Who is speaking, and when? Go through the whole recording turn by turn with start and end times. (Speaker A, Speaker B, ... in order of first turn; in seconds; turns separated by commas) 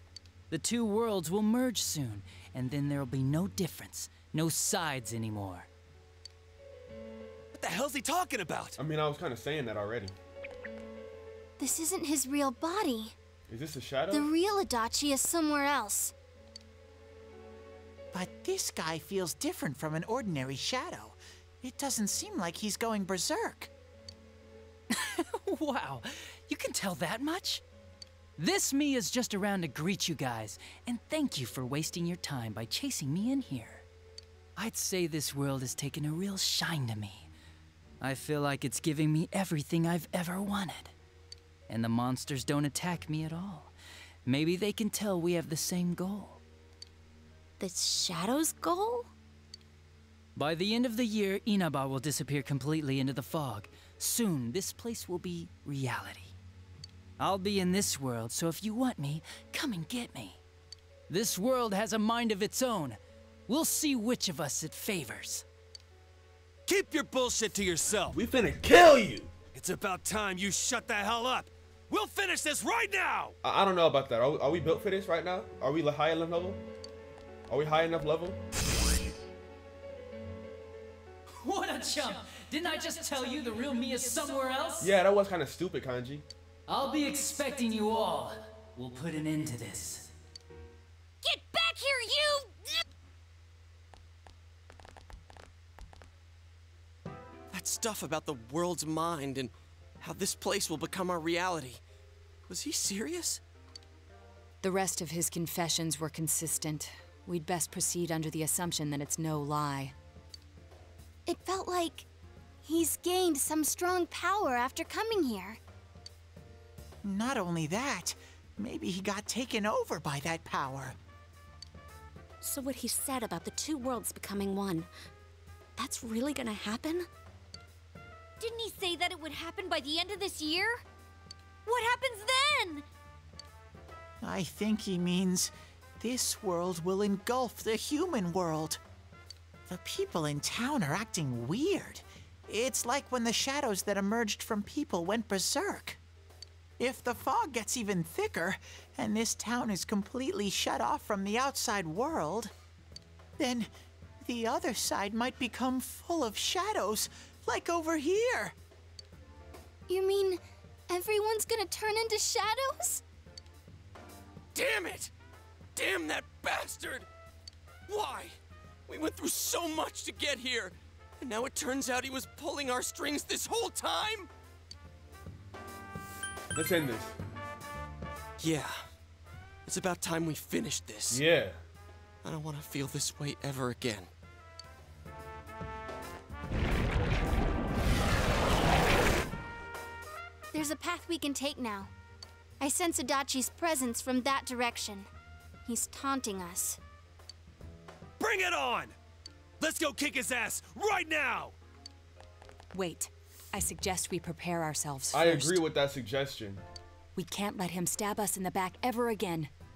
Speaker A: 0.5-5.7, Speaker B: 7.5-8.8, Speaker C: 8.8-10.2, Speaker D: 11.6-13.2, Speaker C: 13.5-14.3, Speaker D: 14.1-16.1, Speaker E: 18.1-23.7, Speaker A: 24.9-27.6, Speaker A: 28.4-33.9, Speaker A: 34.6-37.3, Speaker A: 38.0-40.9, Speaker A: 41.7-43.7, Speaker A: 44.3-46.4, Speaker F: 47.6-49.1, Speaker A: 50.4-56.4, Speaker A: 57.2-60.4, Speaker A: 61.1-65.5, Speaker B: 66.7-68.2, Speaker C: 68.1-69.3, Speaker B: 69.5-73.3, Speaker C: 73.4-76.6, Speaker C: 77.5-78.4, Speaker A: 81.4-84.9, Speaker C: 84.8-86.3, Speaker A: 86.7-90.1, Speaker G: 91.2-92.8, Speaker H: 97.5-101.8, Speaker H: 102.5-103.4, Speaker I: 104.6-109.9, Speaker D: 111.3-112.1, Speaker D: 112.6-115.6, Speaker E: 117.0-121.0, Speaker F: 122.4-124.9, Speaker F: 125.8-127.1, Speaker G: 128.4-130.8, Speaker G: 131.7-132.9, Speaker E: 134.2-138.8, Speaker E: 139.7-146.0, Speaker E: 146.8-152.5, Speaker E: 153.4-153.7, Speaker E: 154.2-158.6, Speaker D: 159.9-163.0, Speaker H: 164.6-165.1, Speaker H: 165.8-167.1, Speaker H: 167.9-168.4, Speaker H: 168.9-174.3, Speaker C: 176.6-177.2, Speaker H: 178.4-178.8, Speaker H: 179.7-181.2, Speaker C: 181.1-181.6, Speaker H: 182.2-184.1, Speaker D: 190.5-191.9, Speaker D: 192.6-195.1, Speaker D: 195.7-196.8, Speaker B: 198.2-198.9, Speaker B: 199.6-201.6, Speaker I: 202.7-205.6, Speaker C: 205.1-206.6, Speaker I: 207.2-209.5